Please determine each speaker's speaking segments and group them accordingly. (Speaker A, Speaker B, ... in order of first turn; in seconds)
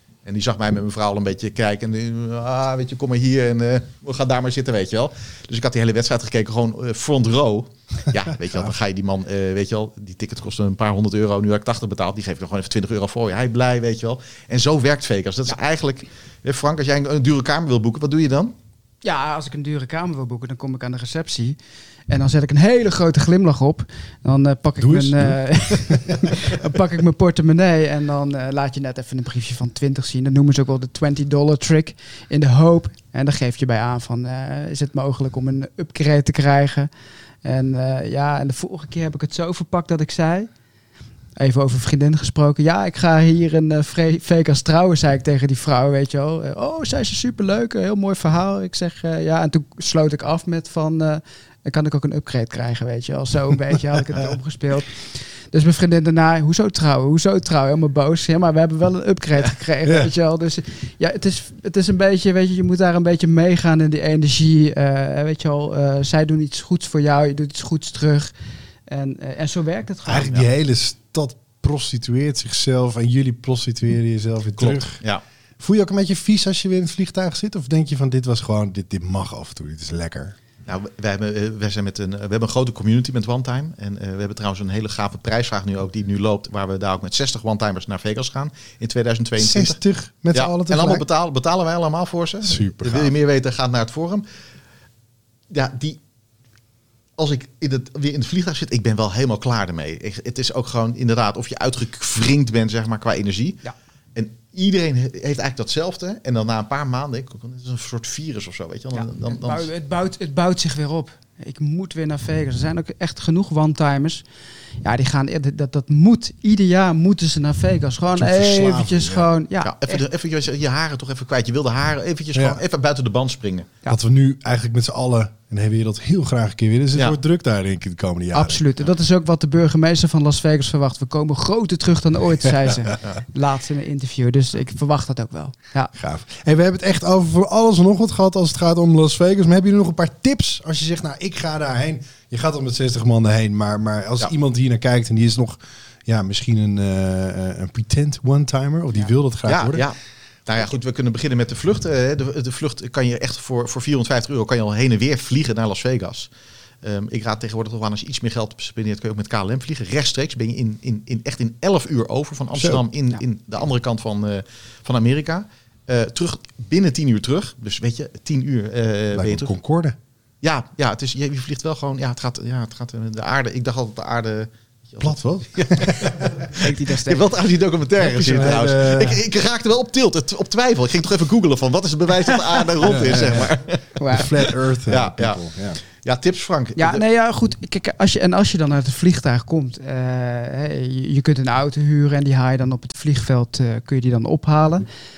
Speaker A: 0.2-18.6, 74.6-75.2, 80.7-89.8, 90.3-94.3, 95.5-96.0, 97.2-103.6, 104.2-109.7, 119.6-123.7, 149.5-150.0, 150.5-156.3, 156.8-169.5, 170.4-187.0
Speaker B: 19.0-21.6, 22.1-36.9, 37.4-40.5, 41.4-68.3, 68.9-70.4, 108.9-114.2, 114.8-120.0, 128.3-135.9, 176.6-177.2, 184.0-184.3, 186.8-194.9
Speaker C: 24.8-26.6, 59.9-60.1, 70.1-75.0, 75.6-80.4, 89.4-91.0, 92.4-93.1, 118.1-119.3, 122.3-122.6, 123.9-128.6, 135.9-149.8, 162.6-162.8, 169.1-170.0, 175.0-176.5, 178.0-179.2, 182.8-183.5, 184.1-185.8